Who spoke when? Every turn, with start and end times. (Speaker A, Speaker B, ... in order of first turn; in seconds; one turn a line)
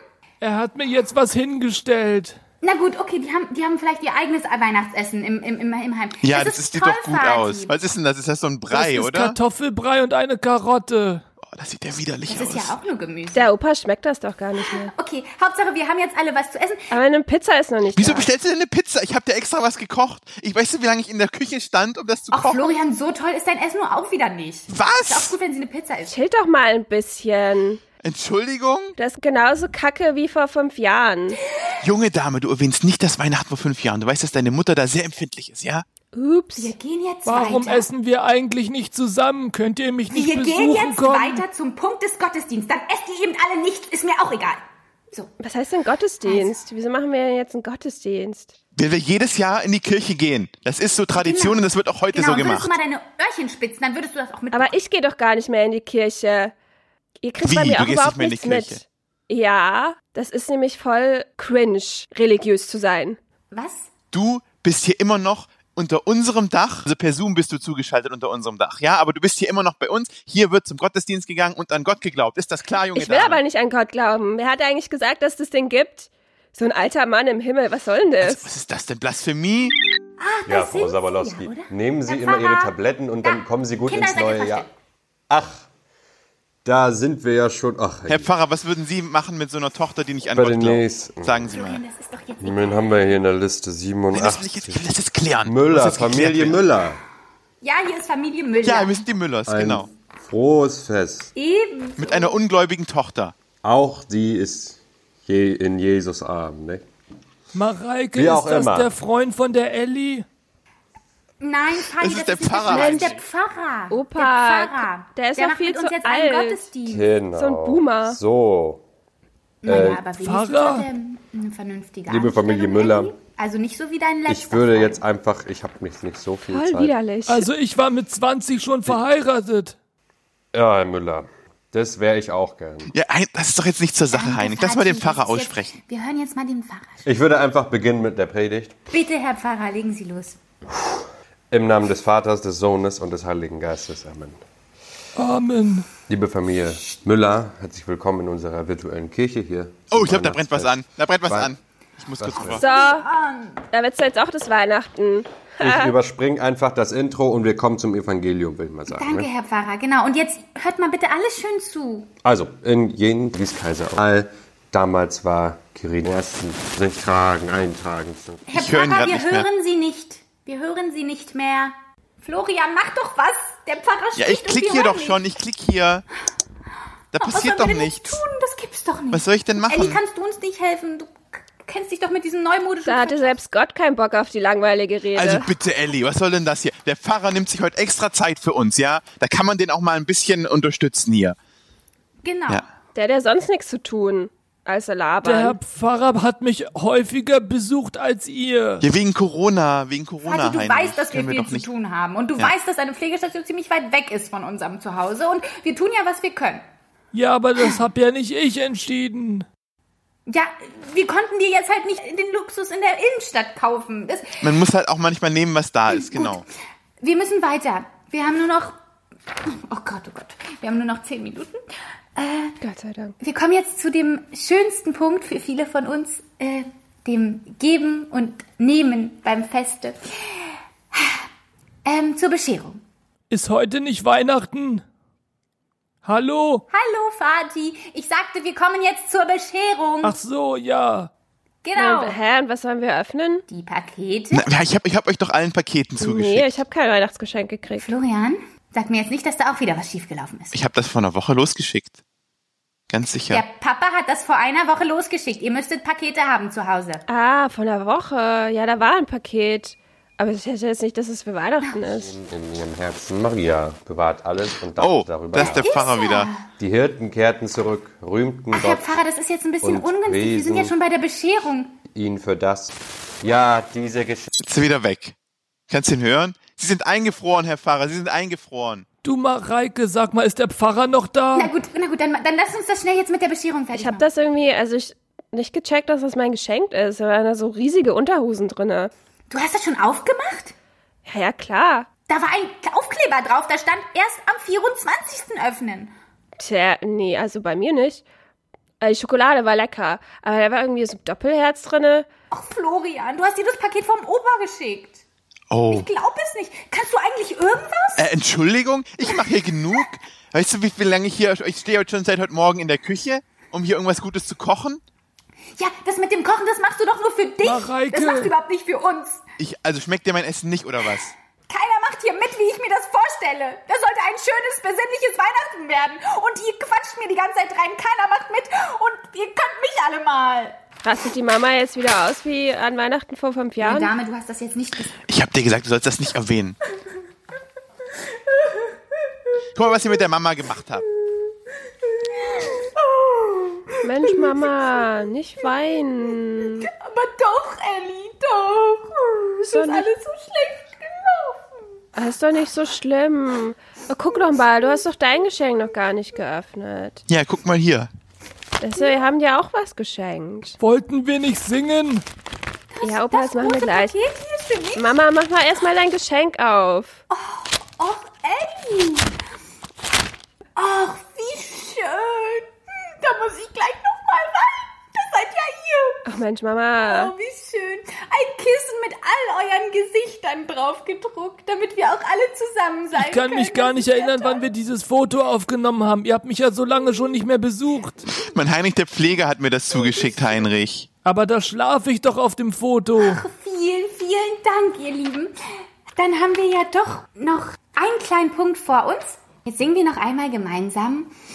Speaker A: 0.4-2.4
Speaker B: 2.6-7.8
Speaker C: 6.2-9.4
Speaker A: 8.7-11.2
Speaker C: 11.4-12.8
Speaker B: 12.3-13.5
Speaker D: 13.3-14.9
Speaker B: 14.6-16.9
Speaker D: 16.9-18.3
Speaker C: 17.9-22.8
Speaker B: 22.3-26.2
Speaker C: 24.7-25.4
Speaker D: 26.1-27.8
Speaker C: 28.0-28.9
Speaker D: 29.0-31.4
Speaker C: 31.8-35.9
Speaker D: 36.1-36.7
Speaker B: 36.6-37.9
Speaker A: 37.2-41.4
Speaker B: 40.1-45.3
Speaker D: 45.4-48.5
Speaker B: 46.2-46.6
Speaker C: 48.8-52.8
Speaker B: 51.1-54.8
Speaker D: 54.5-56.5
Speaker D: 57.2-63.2
Speaker C: 57.4-58.8
Speaker B: 63.5-63.9
Speaker C: 64.1-73.4
Speaker D: 73.0-78.5
Speaker C: 78.2-79.8
Speaker B: 80.2-84.7
Speaker E: 80.5-84.7
Speaker E: 85.3-85.7
Speaker E: 86.7-88.3
Speaker C: 88.1-91.8
Speaker E: 90.3-91.5
Speaker B: 91.5-93.1
Speaker E: 92.4-97.0
Speaker C: 94.1-96.6
Speaker B: 97.6-99.0
Speaker C: 98.6-99.9
Speaker E: 99.5-101.3
Speaker B: 101.4-102.4
Speaker C: 102.0-103.3
Speaker E: 103.6-106.8
Speaker A: 107.5-110.3
Speaker E: 108.1-108.9
Speaker B: 111.4-117.1
Speaker C: 111.9-113.2
Speaker D: 112.7-113.2
Speaker D: 113.9-116.7
Speaker E: 116.8-118.8
Speaker D: 117.3-118.2
Speaker B: 119.6-125.0
Speaker E: 119.7-120.1
Speaker A: 120.2-120.9
Speaker E: 122.1-123.2
Speaker E: 124.3-127.0
Speaker D: 126.5-127.5
Speaker A: 127.3-129.8
Speaker E: 130.5-132.9
Speaker C: 132.9-135.8
Speaker B: 134.1-137.0
Speaker E: 137.1-138.8
Speaker B: 138.9-140.4
Speaker E: 141.5-144.4
Speaker A: 145.2-145.9
Speaker E: 146.1-151.5
Speaker C: 149.9-152.7
Speaker E: 152.1-152.6
Speaker B: 152.6-153.6
Speaker D: 152.6-153.1
Speaker D: 153.7-155.9
Speaker E: 155.6-159.3
Speaker B: 158.9-162.1
Speaker E: 162.2-168.4
Speaker B: 168.5-175.2
Speaker C: 168.5-169.5
Speaker C: 174.2-176.1
Speaker C: 177.1-178.2
Speaker B: 177.2-183.3
Speaker C: 179.1-180.0
Speaker D: 182.8-185.5
Speaker C: 185.1-191.4
Speaker B: 192.2-192.7
Speaker D: 192.9-195.6
Speaker A: 195.2-198.8
Speaker C: 198.8-201.7
Speaker B: 200.2-206.6
Speaker A: 207.1-209.5
Speaker B: 210.3-214.6
Speaker C: 214.4-216.4
Speaker B: 215.9-216.4
Speaker B: 217.0-218.8
Speaker B: 219.5-221.6
Speaker B: 222.2-222.6
Speaker D: 222.6-223.2
Speaker B: 223.2-230.0
Speaker B: 231.9-232.8
Speaker A: 233.3-234.8
Speaker A: 236.0-236.7
Speaker B: 236.7-240.2
Speaker A: 240.0-241.1
Speaker B: 241.6-242.2
Speaker D: 241.8-243.4
Speaker B: 243.5-244.5
Speaker C: 244.3-246.6
Speaker D: 246.0-247.9
Speaker B: 247.8-250.5
Speaker C: 250.5-252.0
Speaker C: 252.9-253.4
Speaker B: 253.3-257.0
Speaker D: 257.1-262.1
Speaker E: 261.9-265.7
Speaker C: 264.8-266.3
Speaker B: 265.3-266.4
Speaker E: 266.6-268.9
Speaker B: 268.5-271.8
Speaker E: 269.6-270.8
Speaker E: 271.9-274.3
Speaker C: 274.4-275.1
Speaker C: 275.7-278.9
Speaker A: 279.0-281.5
Speaker B: 281.4-284.1
Speaker D: 283.7-288.9
Speaker B: 289.3-290.5
Speaker D: 291.1-291.9
Speaker B: 292.1-295.9
Speaker D: 296.4-298.0
Speaker D: 298.8-302.1
Speaker B: 302.3-305.0
Speaker C: 305.5-305.9
Speaker B: 305.7-308.1
Speaker C: 308.0-314.8
Speaker B: 309.1-309.7
Speaker B: 315.6-319.2
Speaker A: 317.4-318.3
Speaker C: 319.4-321.1
Speaker B: 321.5-330.6
Speaker D: 330.8-333.9
Speaker B: 333.6-334.9
Speaker C: 335.1-336.6
Speaker C: 339.6-340.9
Speaker B: 342.3-344.4
Speaker D: 343.8-346.7
Speaker B: 346.3-351.6
Speaker D: 349.5-349.9
Speaker D: 352.0-357.0
Speaker C: 357.1-357.9
Speaker D: 358.6-360.6
Speaker B: 358.7-359.1
Speaker A: 360.6-362.0
Speaker B: 362.7-365.0
Speaker D: 362.8-363.9
Speaker D: 364.8-367.0
Speaker B: 367.1-369.1
Speaker B: 370.6-376.1
Speaker D: 376.1-377.1
Speaker B: 376.8-384.5
Speaker A: 382.9-388.0
Speaker C: 388.1-390.9
Speaker B: 389.7-390.5
Speaker A: 391.1-393.2
Speaker B: 393.0-395.3
Speaker B: 396.0-401.1